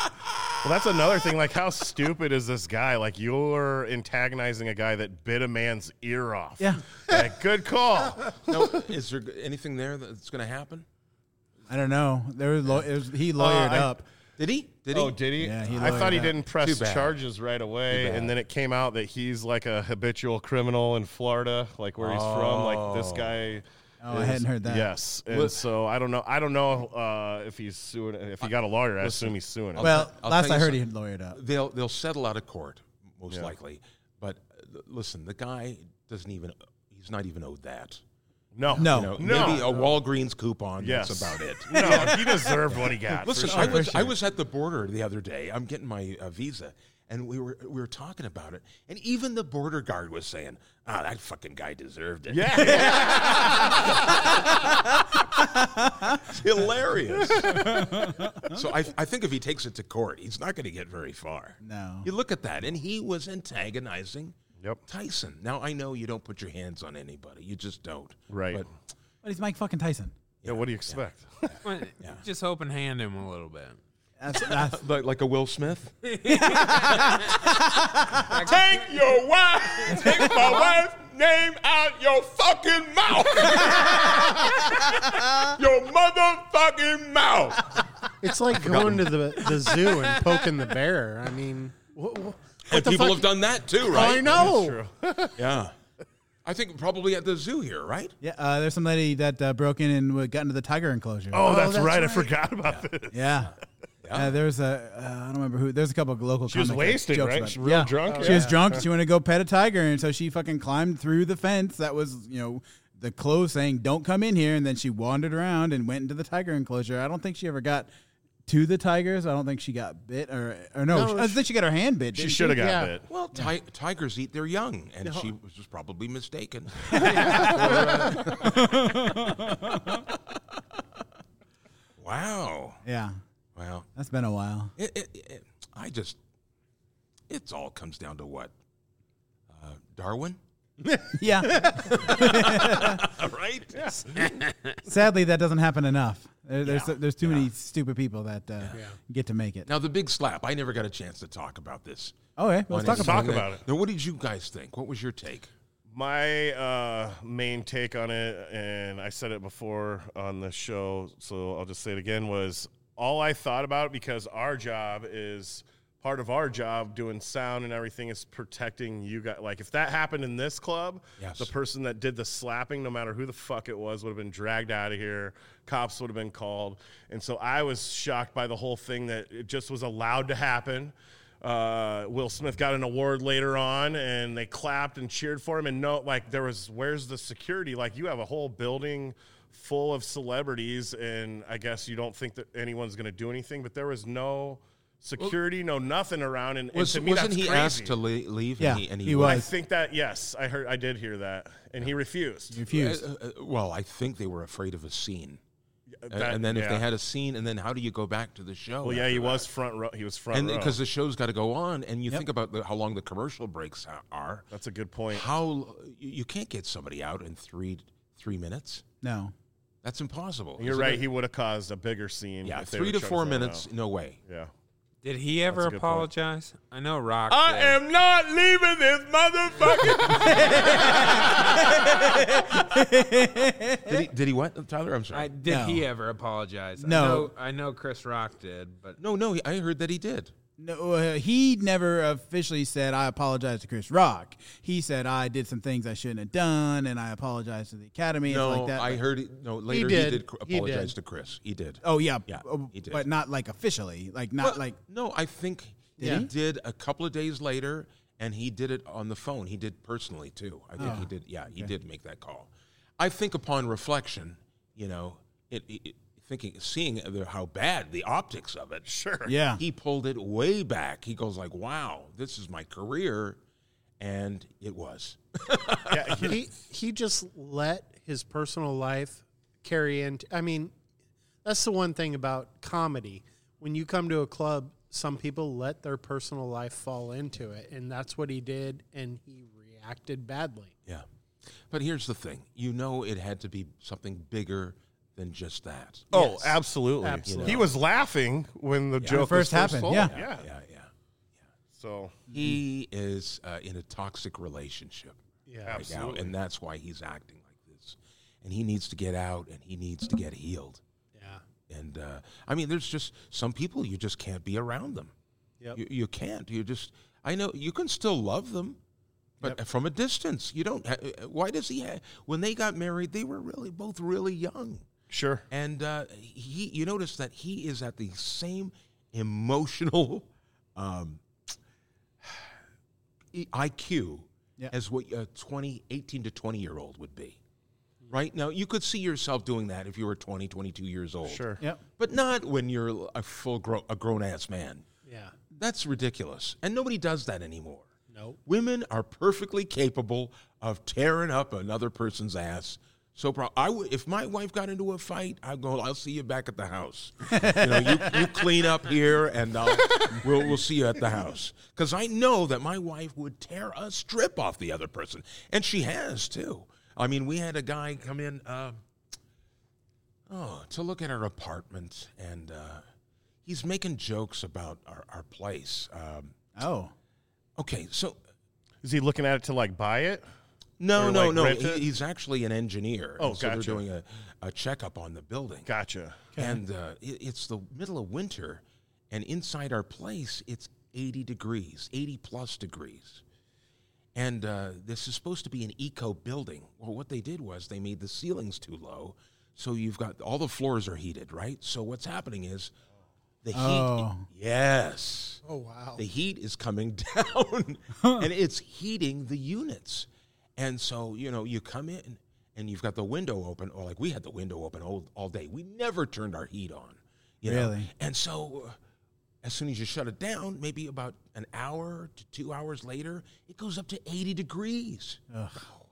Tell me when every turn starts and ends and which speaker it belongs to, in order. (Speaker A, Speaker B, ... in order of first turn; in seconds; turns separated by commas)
Speaker A: 0.6-8.7, Speaker B: 6.6-6.8, Speaker C: 8.4-10.8, Speaker B: 11.7-14.0, Speaker A: 13.4-14.0, Speaker C: 14.4-17.2, Speaker A: 14.9-29.9, Speaker B: 15.4-16.4, Speaker C: 17.9-18.3, Speaker C: 22.0-23.4, Speaker B: 24.0-24.9, Speaker C: 25.3-25.6, Speaker C: 28.4-38.0, Speaker B: 29.8-31.4, Speaker A: 38.5-40.0, Speaker C: 38.7-55.2, Speaker B: 38.8-39.5, Speaker A: 40.8-43.8, Speaker B: 43.4-44.1, Speaker A: 52.3-53.9, Speaker B: 55.3-56.2, Speaker C: 56.0-64.3, Speaker B: 57.4-58.6, Speaker B: 61.6-62.1, Speaker C: 64.9-68.7, Speaker A: 68.3-68.6, Speaker B: 69.2-70.1, Speaker C: 70.4-72.2, Speaker A: 70.4-71.6, Speaker D: 71.6-73.8, Speaker B: 74.2-74.8, Speaker C: 74.3-77.5, Speaker D: 76.0-77.4, Speaker B: 76.8-78.2, Speaker C: 78.2-89.9, Speaker D: 78.3-78.7, Speaker E: 88.2-93.3, Speaker C: 92.7-94.5, Speaker A: 93.8-95.5, Speaker E: 93.9-94.8, Speaker C: 95.3-95.7, Speaker C: 96.4-98.1, Speaker B: 98.2-101.5, Speaker A: 101.3-103.3, Speaker E: 101.4-102.3, Speaker B: 103.1-103.5, Speaker C: 104.0-104.3, Speaker B: 104.1-117.9, Speaker A: 106.5-108.8, Speaker E: 108.1-108.6, Speaker B: 118.5-122.6, Speaker E: 120.9-121.4, Speaker A: 122.1-123.0, Speaker E: 122.5-122.9, Speaker C: 123.1-129.5, Speaker E: 125.0-125.3, Speaker B: 127.0-130.0, Speaker E: 127.4-128.2, Speaker C: 132.0-132.8, Speaker B: 132.8-133.2, Speaker C: 133.5-133.9, Speaker B: 133.9-134.7, Speaker C: 134.8-136.2, Speaker C: 137.3-138.5, Speaker C: 139.5-140.4, Speaker E: 140.8-142.0, Speaker B: 141.2-143.1, Speaker C: 142.0-144.0, Speaker A: 143.7-144.3, Speaker B: 144.8-149.7, Speaker C: 146.6-147.5, Speaker C: 149.7-152.2, Speaker B: 152.3-153.4, Speaker C: 152.7-155.5, Speaker A: 152.8-153.6, Speaker A: 155.9-198.0, Speaker C: 171.2-171.5, Speaker C: 196.7-199.4, Speaker B: 198.6-199.5, Speaker A: 199.1-202.6, Speaker B: 202.5-203.0, Speaker C: 202.7-205.4, Speaker A: 205.9-206.8, Speaker C: 206.1-209.5, Speaker A: 208.8-210.8, Speaker C: 210.3-214.5, Speaker A: 214.5-215.3, Speaker C: 215.1-218.8, Speaker B: 219.0-219.3, Speaker C: 219.8-221.0, Speaker A: 220.6-223.7, Speaker C: 222.4-224.2, Speaker A: 224.2-224.5, Speaker D: 225.0-227.8, Speaker A: 225.5-226.1, Speaker C: 227.3-231.8, Speaker A: 229.1-231.3, Speaker B: 230.1-234.0, Speaker C: 233.8-235.3, Speaker D: 235.1-239.0, Speaker B: 235.4-235.9, Speaker B: 236.8-237.3, Speaker C: 239.0-240.3, Speaker B: 240.6-249.0, Speaker C: 248.3-253.1, Speaker E: 249.7-250.9, Speaker B: 251.8-254.8, Speaker C: 254.4-268.9, Speaker B: 256.0-256.3, Speaker E: 256.0-256.2, Speaker B: 260.8-261.1, Speaker A: 268.9-269.3, Speaker B: 269.2-269.6, Speaker C: 269.5-273.4, Speaker C: 274.0-276.3, Speaker A: 275.9-276.4, Speaker E: 276.2-280.7, Speaker E: 281.4-290.7, Speaker C: 291.7-296.2, Speaker E: 296.1-297.7, Speaker A: 296.1-300.5, Speaker C: 297.2-297.7, Speaker C: 299.0-299.3, Speaker B: 299.1-300.1, Speaker C: 299.9-300.9, Speaker A: 301.7-302.2, Speaker C: 302.3-310.8, Speaker E: 305.5-305.9, Speaker A: 305.6-306.3, Speaker E: 311.1-311.4, Speaker C: 311.7-315.1, Speaker C: 315.7-318.8, Speaker C: 319.4-324.9, Speaker A: 325.1-325.4, Speaker C: 325.5-331.6, Speaker C: 332.2-332.5, Speaker C: 333.3-337.4, Speaker C: 338.1-341.5, Speaker A: 341.2-341.6, Speaker C: 342.0-344.9, Speaker E: 345.0-345.3, Speaker C: 345.5-347.9, Speaker E: 348.1-348.4, Speaker C: 348.4-368.8, Speaker B: 357.3-358.1, Speaker C: 370.3-372.8, Speaker C: 373.4-376.3, Speaker B: 376.6-376.9, Speaker C: 377.6-378.2, Speaker A: 378.8-380.2, Speaker C: 380.8-385.7, Speaker A: 380.9-381.8, Speaker A: 383.2-383.8, Speaker A: 385.6-386.3, Speaker C: 386.4-393.2, Speaker C: 394.1-402.7, Speaker C: 403.4-405.4, Speaker B: 403.5-404.2, Speaker E: 405.4-406.0, Speaker C: 405.9-418.8, Speaker B: 417.4-417.9, Speaker C: 419.4-425.2, Speaker B: 425.3-425.6